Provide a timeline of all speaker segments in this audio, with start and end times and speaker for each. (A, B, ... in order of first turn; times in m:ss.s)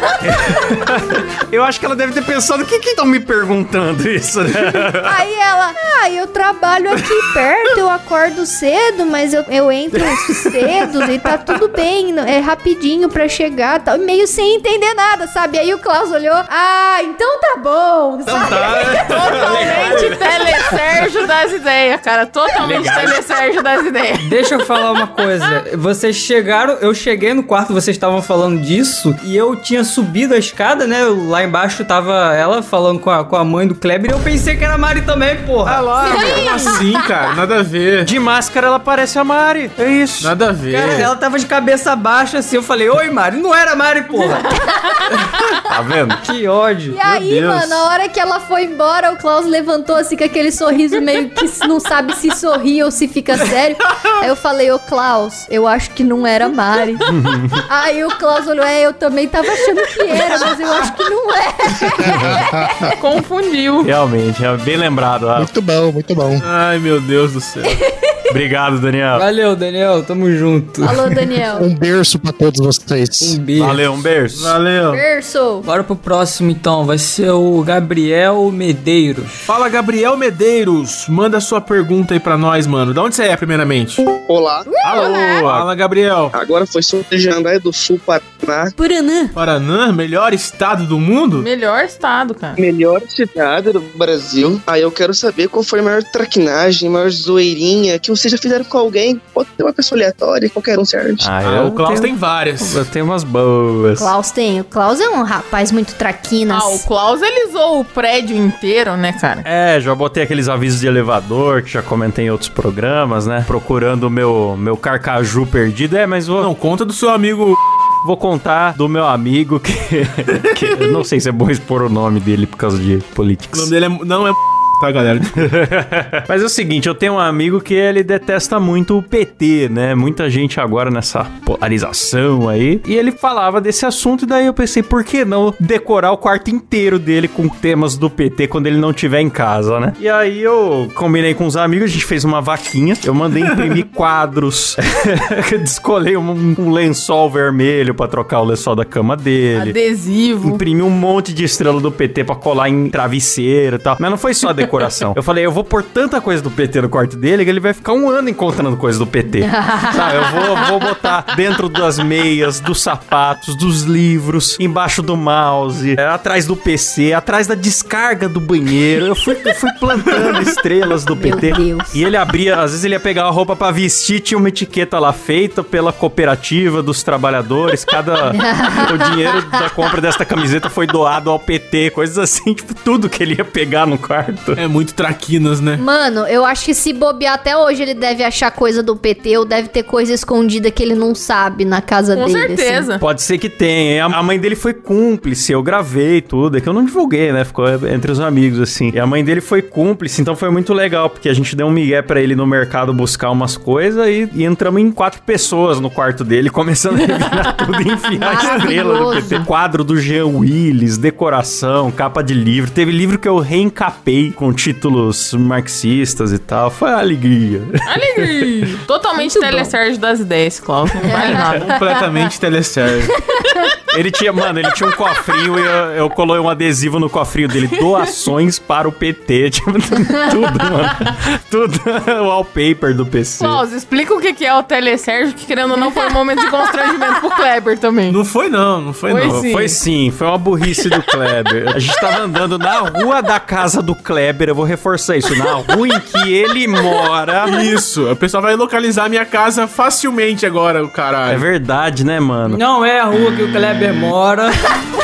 0:00.2-0:05.2 A
0:05.0-0:19.5 B
0:10.0-0:10.9 A
0:18.2-0:20.7 A
0:19.0-0:24.4 C
0:22.6-0:23.2 A
0:24.2-0:35.9 D
0:35.6-0:36.6 A
0:36.0-0:36.6 B
0:36.1-0:38.1 E
0:38.0-0:40.4 A
0:40.2-0:41.1 E
0:40.7-0:44.5 D
0:44.8-0:45.0 B
0:45.7-0:46.2 A
0:46.2-0:47.0 D
0:46.9-0:57.1 B
0:47.0-0:47.8 E
0:57.0-0:57.6 A
0:57.7-1:02.9 B
1:02.0-1:02.4 F
1:03.0-1:03.9 C
1:03.8-1:05.5 A
1:05.3-1:06.4 F
1:06.4-1:07.8 E
1:08.3-1:09.2 A
1:09.1-1:11.1 D
1:10.8-1:11.6 B
1:11.5-1:13.4 F
1:13.2-1:13.8 D
1:13.6-1:14.6 A
1:14.3-1:15.0 E
1:14.9-1:15.6 B
1:15.6-1:19.5 D
1:19.5-1:24.0 E
1:24.2-1:24.7 G
1:24.7-1:25.4 B
1:24.8-1:25.7 A
1:25.0-1:26.3 E
1:26.3-1:28.7 G
1:28.8-1:29.3 B
1:29.3-1:31.5 E
1:31.4-1:32.6 C
1:32.6-1:41.3 G
1:41.2-1:44.1 A
1:41.4-1:42.8 E
1:44.0-1:46.8 B
1:46.5-1:49.4 C
1:49.4-1:56.5 A
1:56.4-1:57.6 E
1:58.0-2:03.7 A
2:03.5-2:05.4 E
2:05.4-2:29.7 A
2:29.5-2:30.6 C
2:30.4-3:04.6 A
2:39.4-2:40.4 B
2:51.1-2:52.0 B
2:58.3-2:59.4 B
3:04.6-3:05.8 E
3:05.8-3:12.9 B
3:12.1-3:13.0 C
3:13.0-3:38.5 A
3:28.2-3:29.4 B
3:37.9-3:41.7 C
3:39.2-3:39.7 B
3:41.1-3:41.7 B
3:41.2-3:43.2 E
3:43.9-3:53.6 A
3:53.4-3:58.2 C
3:58.1-3:59.5 E
3:59.1-3:59.8 C
3:59.2-4:07.7 A
4:07.4-4:11.4 E
4:11.3-4:12.6 A
4:12.5-4:14.8 D